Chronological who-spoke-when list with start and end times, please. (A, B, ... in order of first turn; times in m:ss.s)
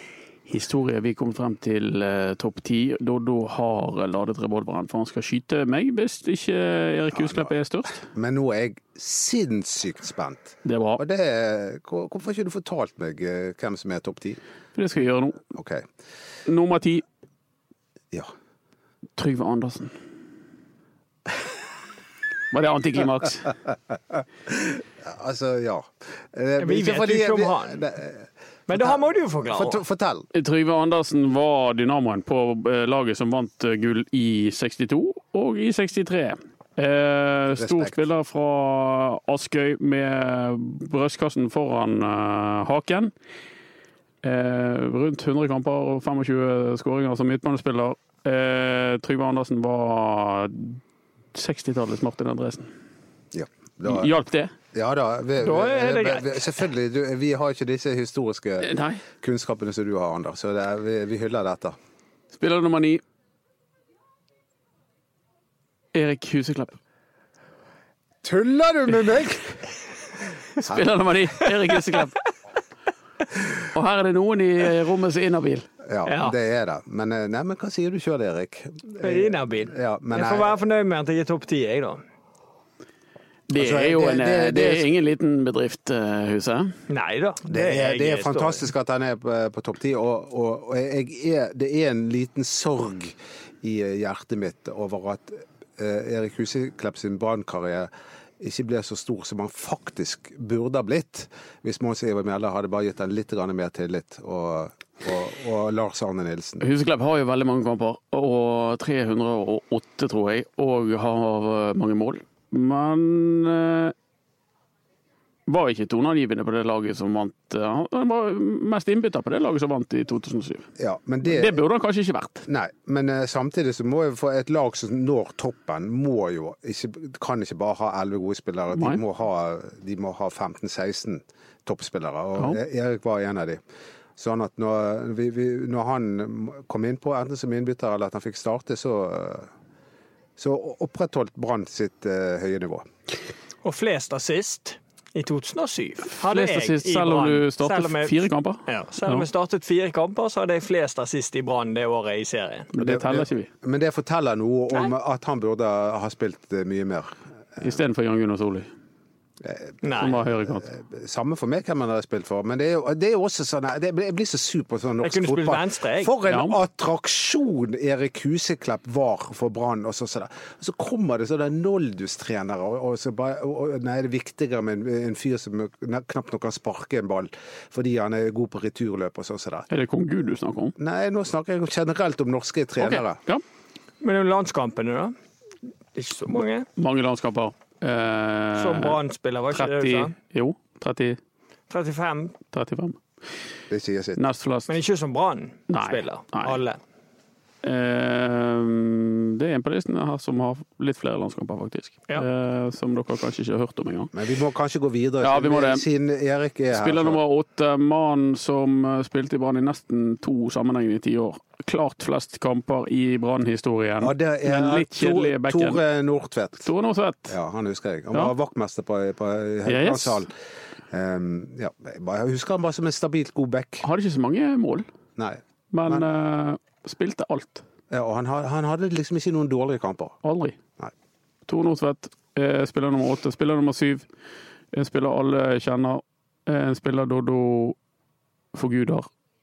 0:00.5-0:08.0 A
0:07.1-0:14.4 B
0:10.6-0:11.0 A
0:14.7-0:15.4 A
0:15.5-0:15.8 B
0:16.4-0:17.0 A
0:19.2-0:19.9 A
0:22.5-0:23.5 A
0:24.5-0:30.3 B
0:26.6-0:27.9 C
0:28.7-0:29.8 C
0:30.3-0:43.1 A
0:37.5-0:38.0 B
0:44.2-0:50.8 A
0:51.3-0:52.7 A
0:53.3-0:54.1 B
0:53.8-0:54.5 A
0:54.7-1:01.7 B
0:55.4-0:56.5 C
0:58.6-0:59.0 A
1:02.3-1:03.0 A
1:05.9-1:06.8 A
1:08.2-1:09.7 B
1:10.6-1:12.1 A
1:13.7-1:15.7 A
1:15.8-1:20.5 B
1:16.0-1:16.4 C
1:19.0-1:22.0 C
1:23.5-1:26.7 A
1:23.5-1:24.9 B
1:26.9-1:28.6 C
1:27.5-1:46.6 B
1:46.6-1:53.9 A
1:55.5-2:00.7 A
2:00.8-2:01.6 B
2:01.2-2:02.4 A
2:02.5-2:13.6 B
2:08.7-2:09.0 A
2:14.2-2:19.5 B
2:20.4-2:22.8 B
2:23.6-2:32.7 C
2:26.1-2:29.2 A
2:32.7-2:33.5 A
2:32.7-2:37.2 B
2:37.6-2:38.7 A
2:39.4-2:59.7 B
2:39.8-2:40.2 C
2:39.9-2:40.7 A
2:45.0-2:46.1 C
2:46.3-2:46.6 A
2:59.7-3:00.7 A
3:00.8-3:03.2 B
3:02.8-3:03.4 A
3:04.0-3:05.1 C
3:05.9-3:06.7 C
3:06.8-3:09.0 A
3:08.5-3:10.1 C
3:09.5-3:11.2 A
3:11.7-3:12.4 C
3:12.5-3:13.0 A
3:13.7-3:14.2 B
3:14.2-3:14.8 A
3:14.7-3:16.8 C
3:15.7-3:16.6 A
3:17.6-3:24.1 A
3:24.1-3:27.2 B
3:25.2-3:25.8 A
3:26.7-3:35.8 A
3:34.0-3:36.7 B
3:36.6-3:37.3 A
3:37.3-3:40.3 B
3:39.6-3:40.2 A
3:40.9-3:43.8 B
3:43.8-3:44.8 A
3:45.2-3:46.0 B
3:45.7-3:47.6 A
3:47.9-3:50.2 B
3:50.2-3:50.6 A
3:51.4-3:54.0 A
3:54.7-3:57.8 A
3:58.5-3:59.1 A